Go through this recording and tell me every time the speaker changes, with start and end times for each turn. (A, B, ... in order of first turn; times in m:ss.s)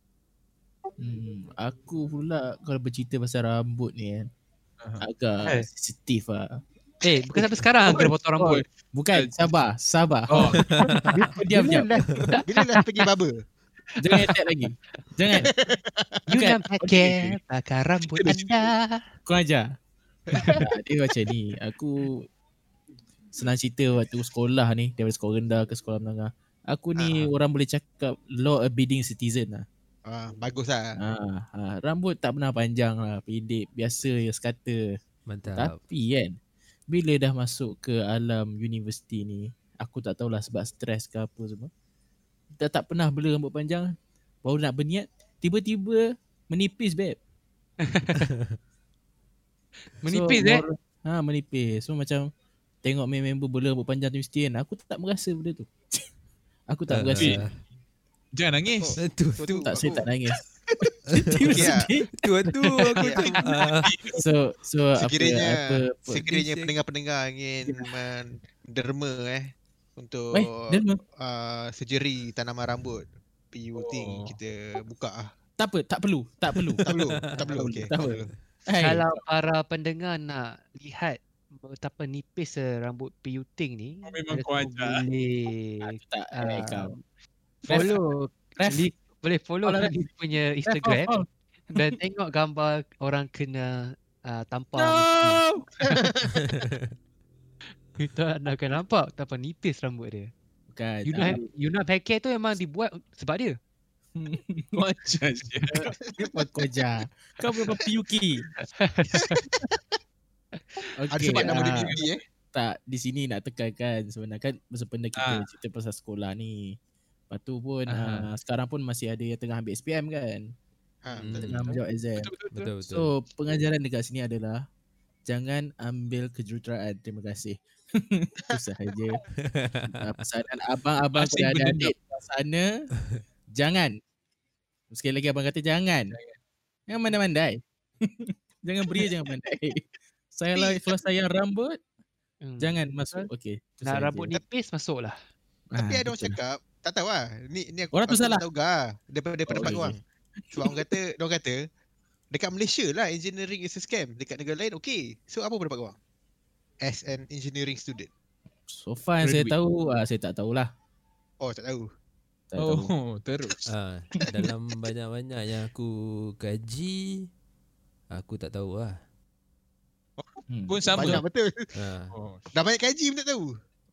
0:01.0-0:04.3 A
0:04.8-0:05.0 B
0:05.0-0:06.6 A
0:07.0-0:08.6 C
0:07.3-0:10.6 A
0:10.3-0:10.6 B
0:10.6-0:11.1 D
0:10.8-0:12.8 C
0:11.2-0:11.9 A
0:12.1-0:12.4 D
0:12.4-0:13.3 E
0:14.0-0:15.5 A
0:15.4-0:16.1 E
0:16.3-0:19.0 C
0:16.3-0:17.4 A
0:18.2-0:18.5 B
0:19.3-0:19.6 A
0:20.3-0:20.6 E
0:20.6-0:22.2 A
0:23.3-0:29.6 A
0:27.0-0:27.3 E
0:30.1-0:31.0 E
0:31.0-0:34.8 A
0:35.3-0:35.8 D
0:35.5-0:36.3 A
0:36.9-0:41.7 A
0:42.6-0:43.9 A
0:44.4-0:47.2 A
0:47.8-0:48.2 C
0:48.1-0:48.6 D
0:49.9-0:50.6 C
0:50.0-0:52.3 A
0:52.8-0:56.0 A
0:56.7-0:57.4 A
0:56.9-0:57.5 D
0:58.3-0:58.9 B
0:58.8-1:00.0 E
0:59.0-0:59.7 D
0:59.6-1:00.4 A
1:01.1-1:03.9 D
1:01.1-1:02.0 A
1:01.6-1:01.9 E
1:02.8-1:03.3 C
1:03.0-1:03.5 E
1:03.8-1:04.2 B
1:04.2-1:06.3 A
1:05.0-1:15.3 E
1:06.3-1:06.7 D
1:10.3-1:11.0 A
1:13.8-1:14.4 B
1:15.6-1:16.8 A
1:16.8-1:18.3 E
1:17.1-1:17.4 D
1:17.5-1:19.2 A
1:18.7-1:27.0 C
1:24.0-1:25.0 B
1:25.8-1:26.9 A
1:27.6-1:27.9 B
1:27.7-1:28.9 A
1:27.7-1:31.2 C
1:29.6-1:30.1 A
1:30.6-1:31.8 A
1:31.7-1:35.4 C
1:34.7-1:35.6 B
1:36.0-1:36.3 E
1:36.3-1:36.9 D
1:37.9-1:40.3 C
1:40.7-1:41.4 A
1:41.0-1:43.6 C
1:44.1-1:48.5 A
1:44.7-1:45.8 B
1:48.8-1:49.3 C
1:51.0-1:52.0 A
1:51.1-1:52.2 E
1:52.5-1:56.8 A
1:55.2-1:55.5 B
1:57.3-2:00.5 A
1:57.9-1:58.3 B
2:01.0-2:01.5 E
2:01.2-2:01.7 D
2:01.3-2:02.3 A
2:02.2-2:02.7 B
2:02.5-2:03.1 D
2:02.9-2:04.6 A
2:05.3-2:09.2 A
2:09.4-2:10.1 D
2:09.9-2:12.7 A
2:11.1-2:11.9 B
2:13.6-2:13.9 A
2:14.9-2:16.1 A
2:16.9-2:21.8 A
2:20.6-2:20.8 E
2:22.4-2:23.3 C
2:22.6-2:24.3 A
2:23.8-2:25.2 C
2:25.7-2:26.4 A
2:25.8-2:30.0 E
2:27.9-2:28.4 A
2:29.5-2:30.9 A
2:30.5-2:31.6 E
2:32.3-2:36.0 E
2:36.8-2:38.1 E
2:38.7-2:40.7 A
2:39.2-2:39.5 B
2:41.4-2:41.9 E
2:42.5-2:42.9 A
2:42.6-2:43.7 B
2:43.6-2:47.2 D
2:48.1-2:49.0 D
2:50.5-2:51.2 A
2:50.7-2:51.2 B
2:50.9-2:51.7 E
2:51.7-2:52.1 D
2:52.1-2:52.5 B
2:52.5-2:53.5 E